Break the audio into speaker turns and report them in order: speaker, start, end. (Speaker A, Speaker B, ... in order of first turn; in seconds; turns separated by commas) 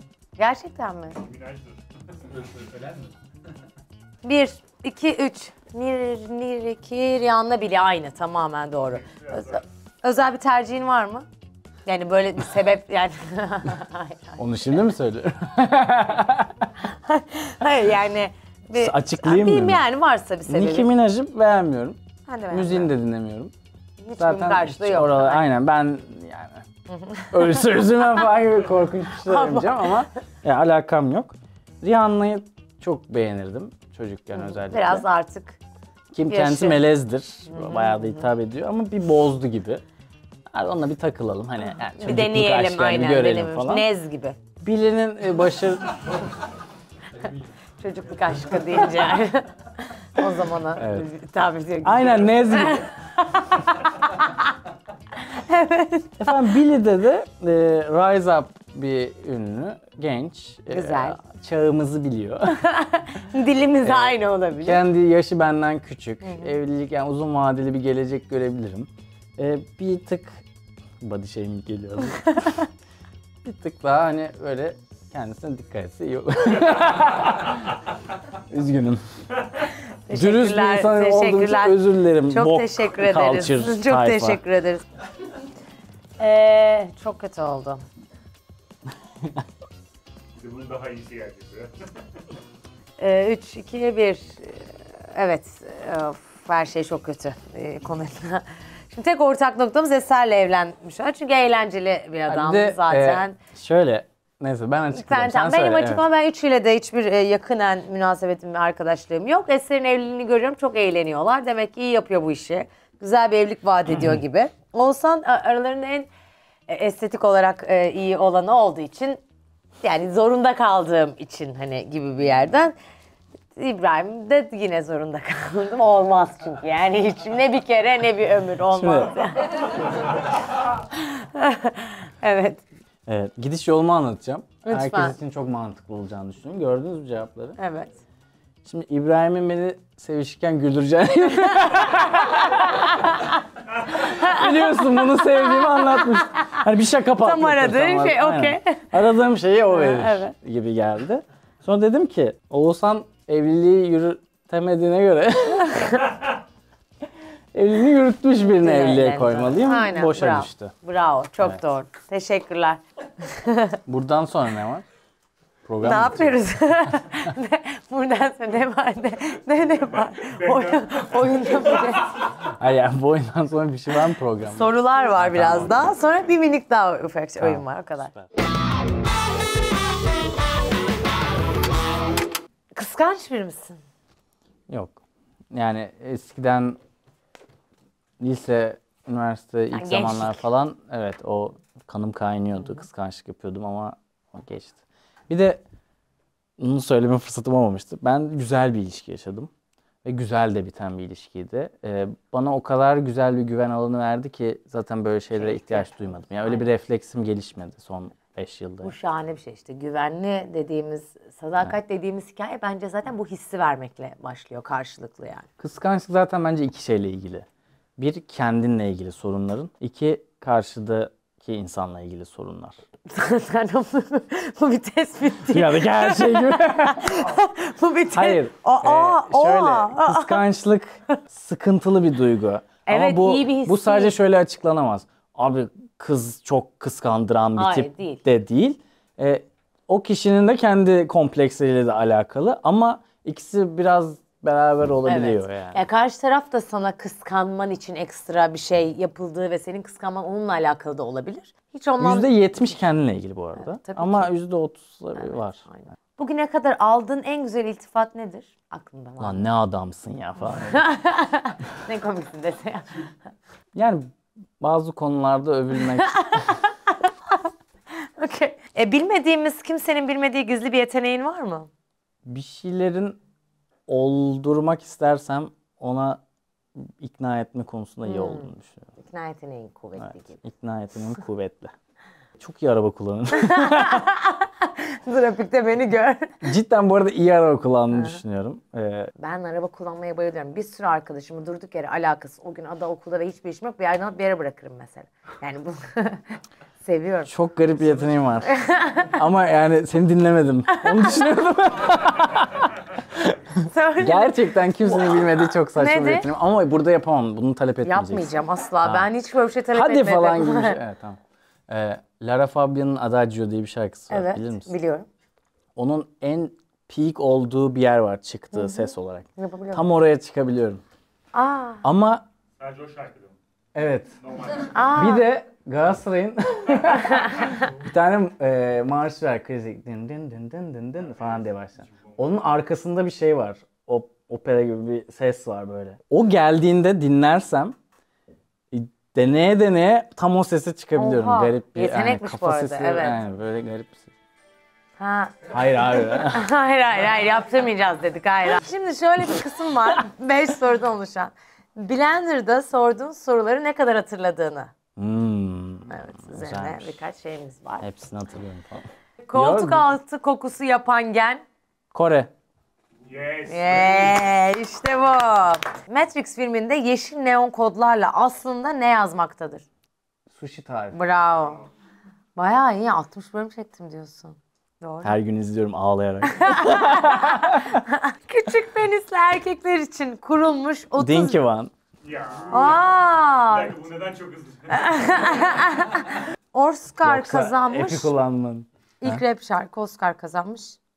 Speaker A: 0.4-1.2, Speaker B: 1.2-3.1, Speaker A: 4.2-11.3, Speaker B: 9.0-9.6, Speaker A: 11.8-14.4, Speaker C: 14.4-16.7, Speaker A: 16.8-20.9, Speaker C: 18.8-19.8, Speaker C: 20.4-23.5, Speaker A: 22.3-22.9, Speaker A: 24.0-25.4, Speaker C: 24.2-26.6, Speaker A: 26.9-27.6, Speaker C: 27.3-35.0, Speaker A: 29.2-30.0, Speaker A: 34.4-35.6, Speaker C: 36.1-39.8, Speaker A: 36.3-36.8, Speaker A: 37.5-38.3, Speaker C: 40.5-43.9, Speaker A: 42.0-44.4, Speaker C: 44.6-46.0, Speaker A: 47.8-54.5, Speaker C: 50.8-51.1, Speaker C: 51.8-52.9, Speaker A: 55.1-56.2, Speaker C: 56.2-62.7, Speaker A: 60.7-61.2, Speaker A: 62.6-64.8, Speaker C: 63.8-70.4, Speaker A: 66.2-66.5, Speaker C: 71.0-72.6, Speaker A: 72.3-72.6, Speaker C: 73.4-77.8, Speaker C: 78.5-79.0, Speaker A: 80.1-84.8, Speaker C: 80.1-84.4, Speaker A: 86.2-87.8, Speaker B: 90.4-91.8, Speaker A: 93.0-103.3, Speaker C: 102.3-106.0, Speaker A: 104.9-116.1, Speaker A: 116.7-119.2, Speaker A: 119.8-122.7, Speaker A: 123.5-129.8, Speaker C: 128.7-129.2, Speaker A: 130.9-132.6, Speaker C: 133.1-137.6, Speaker A: 134.7-135.2, Speaker A: 137.6-137.9, Speaker C: 138.6-143.2, Speaker A: 142.4-143.3, Speaker C: 143.9-156.0, Speaker A: 144.0-146.6, Speaker A: 147.2-148.9, Speaker A: 149.7-150.3, Speaker A: 155.7-156.1, Speaker C: 157.5-160.7, Speaker A: 158.4-163.8, Speaker C: 163.9-164.8, Speaker C: 165.6-166.4, Speaker A: 165.8-172.2, Speaker C: 172.4-175.9, Speaker A: 174.4-178.1, Speaker C: 177.4-178.2, Speaker A: 182.7-183.8, Speaker C: 184.7-185.0, Speaker C: 185.5-186.8, Speaker C: 188.2-195.6, Speaker A: 189.7-190.4, Speaker C: 196.6-199.5, Speaker C: 200.0-208.9, Speaker A: 205.3-206.7, Speaker A: 208.8-215.5, Speaker C: 215.6-217.4, Speaker C: 218.0-222.8, Speaker A: 223.1-230.4, Speaker C: 225.5-227.3, Speaker C: 228.1-245.8, Speaker A: 232.8-234.1, Speaker A: 237.6-238.2, Speaker A: 245.1-252.6, Speaker C: 252.0-255.6, Speaker A: 253.6-254.3, Speaker A: 255.2-259.4, Speaker C: 259.2-260.8, Speaker A: 260.5-262.9, Speaker C: 263.7-264.1, Speaker C: 264.6-266.4, Speaker A: 265.9-267.4, Speaker A: 268.0-271.7, Speaker C: 272.2-273.2, Speaker C: 273.9-276.2, Speaker C: 276.7-278.9, Speaker A: 278.1-280.4, Speaker C: 280.0-281.7, Speaker C: 282.4-284.1, Speaker A: 283.3-286.4, Speaker C: 286.4-289.1, Speaker A: 289.2-297.3, Speaker C: 297.2-298.6, Speaker A: 298.4-299.2, Speaker C: 299.1-308.3, Speaker A: 300.7-301.2, Speaker A: 303.6-306.3, Speaker A: 307.8-310.8, Speaker C: 308.8-309.1, Speaker C: 309.7-314.7, Speaker A: 314.1-315.1, Speaker C: 315.8-320.8, Speaker A: 318.5-319.8, Speaker A: 321.3-321.8, Speaker C: 321.8-322.2, Speaker B: 322.6-323.4, Speaker C: 323.7-324.1, Speaker B: 324.2-324.7, Speaker A: 324.7-325.2, Speaker C: 324.9-337.8, Speaker A: 327.3-327.6, Speaker C: 338.7-344.1, Speaker A: 340.9-343.2, Speaker A: 345.0-354.7, Speaker C: 345.5-346.5, Speaker C: 354.9-357.0, Speaker A: 355.9-357.9, Speaker C: 357.8-359.9, Speaker A: 359.2-361.4, Speaker C: 361.9-362.3, Speaker B: 363.0-364.2, Speaker A: 363.4-369.6, Speaker C: 370.3-371.0, Speaker A: 370.9-371.6, Speaker A: 372.4-375.1, Speaker C: 375.0-377.8, Speaker A: 376.3-381.4, Speaker C: 381.0-381.7, Speaker B: 382.0-382.9, Speaker A: 382.5-383.8, Speaker B: 383.4-385.7, Speaker A: 384.7-388.1, Speaker C: 387.0-389.2, Speaker A: 389.0-390.8